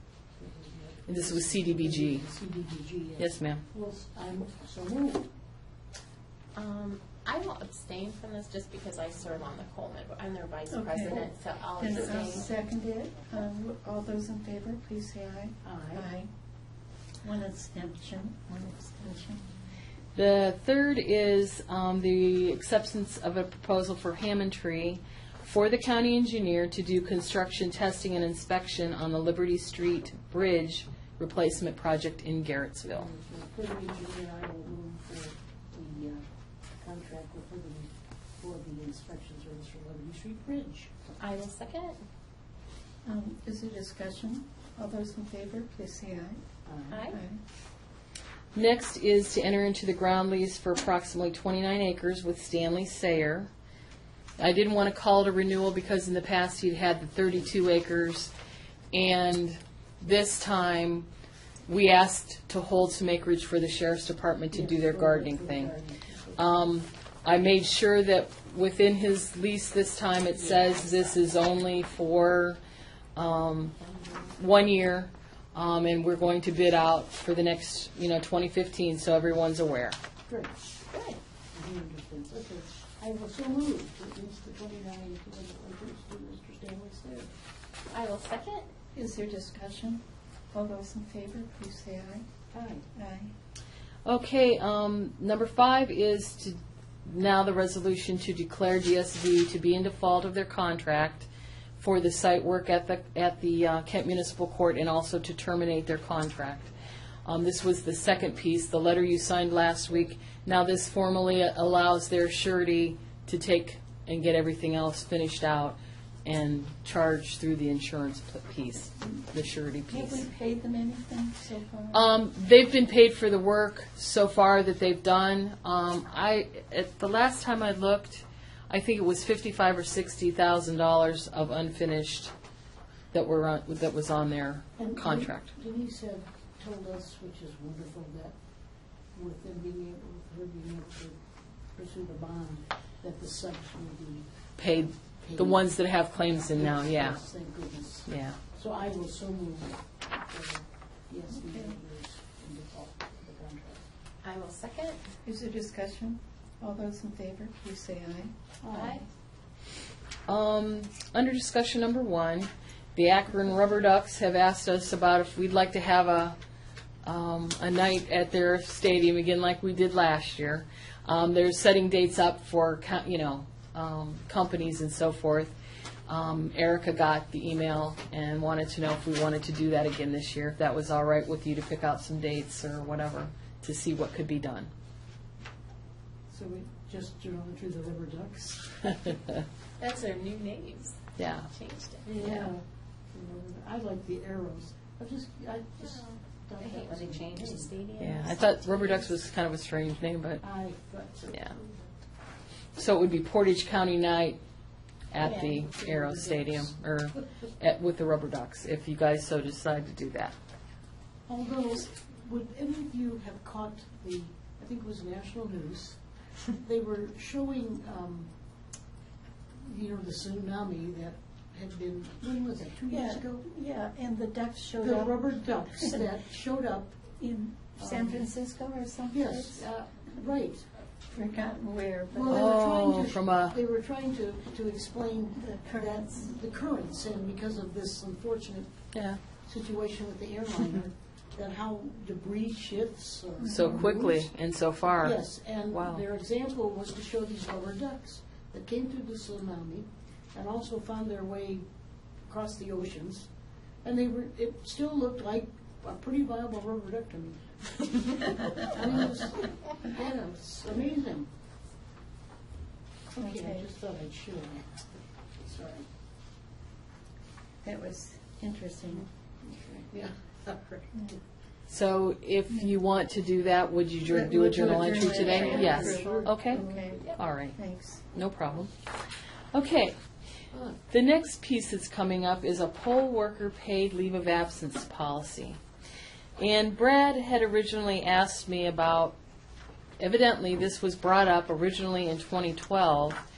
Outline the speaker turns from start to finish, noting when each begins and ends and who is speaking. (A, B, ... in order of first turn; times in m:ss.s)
0:00.4-0:05.3 A
0:01.1-0:02.2 B
0:03.2-0:03.6 B
0:06.6-0:12.5 C
0:10.7-0:16.3 D
0:12.0-0:12.4 A
0:15.6-0:16.1 A
0:17.2-0:19.5 D
0:20.2-0:33.1 B
0:32.9-0:36.2 A
0:36.8-0:40.9 A
0:41.2-0:42.0 C
0:43.0-0:46.4 D
0:46.6-0:47.1 A
0:46.9-0:47.2 C
0:47.1-0:47.4 D
0:48.5-0:53.5 B
0:54.4-0:58.3 B
0:58.9-1:01.1 B
1:01.7-1:05.8 B
1:04.5-1:06.5 A
1:06.4-1:12.6 B
1:13.2-1:20.0 B
1:20.3-1:20.5 A
1:20.9-1:21.2 C
1:21.5-1:27.3 A
1:27.9-1:28.7 C
1:29.0-1:32.3 D
1:32.5-1:32.9 A
1:32.9-1:33.3 D
1:34.0-1:46.7 B
1:47.2-2:00.3 B
1:59.9-2:02.1 D
2:01.9-2:12.3 B
2:13.1-2:15.5 B
2:14.8-2:18.4 A
2:19.2-2:21.2 A
2:21.8-2:24.3 A
2:24.6-2:27.2 B
2:25.2-2:25.7 A
2:26.5-2:33.8 A
2:28.1-2:28.4 B
2:31.5-2:31.8 D
2:34.2-2:35.0 C
2:35.2-2:38.3 D
2:38.6-2:39.0 A
2:38.7-2:39.0 C
2:40.3-2:46.4 B
2:47.0-2:55.5 B
2:56.1-3:04.7 B
3:06.3-3:09.2 A
3:09.8-3:12.1 C
3:11.2-3:11.5 B
3:12.0-3:17.8 A
3:12.2-3:12.5 B
3:15.8-3:19.1 C
3:18.0-3:20.4 B
3:20.4-3:21.8 A
3:22.8-3:24.4 B
3:25.1-3:30.4 B
3:25.3-3:26.8 A
3:31.3-3:36.0 A
3:36.6-3:38.3 A
3:39.6-3:43.4 A
3:42.9-3:46.1 D
3:44.8-3:47.0 A
3:47.2-3:49.7 D
3:47.8-3:48.3 A
3:49.1-3:50.7 A
3:51.1-3:52.5 D
3:52.1-3:58.7 A
3:52.3-3:53.6 B
3:55.4-3:56.0 D
3:58.9-3:59.2 B
3:59.5-4:04.3 A
4:03.4-4:03.9 D
4:03.5-4:06.1 B
4:05.0-4:11.6 A
4:12.3-4:13.3 A
4:13.8-4:21.3 A
4:23.1-4:25.9 A
4:23.2-4:23.6 D
4:27.6-4:29.1 D
4:29.4-4:30.9 A
4:31.7-4:38.7 B
4:34.1-4:37.0 D
4:34.4-4:36.9 A
4:35.3-4:35.8 C
4:36.8-4:37.2 C
4:37.6-4:38.0 D
4:39.5-4:40.0 B
4:40.9-4:45.6 B
4:46.4-4:49.2 B
4:50.0-4:53.2 B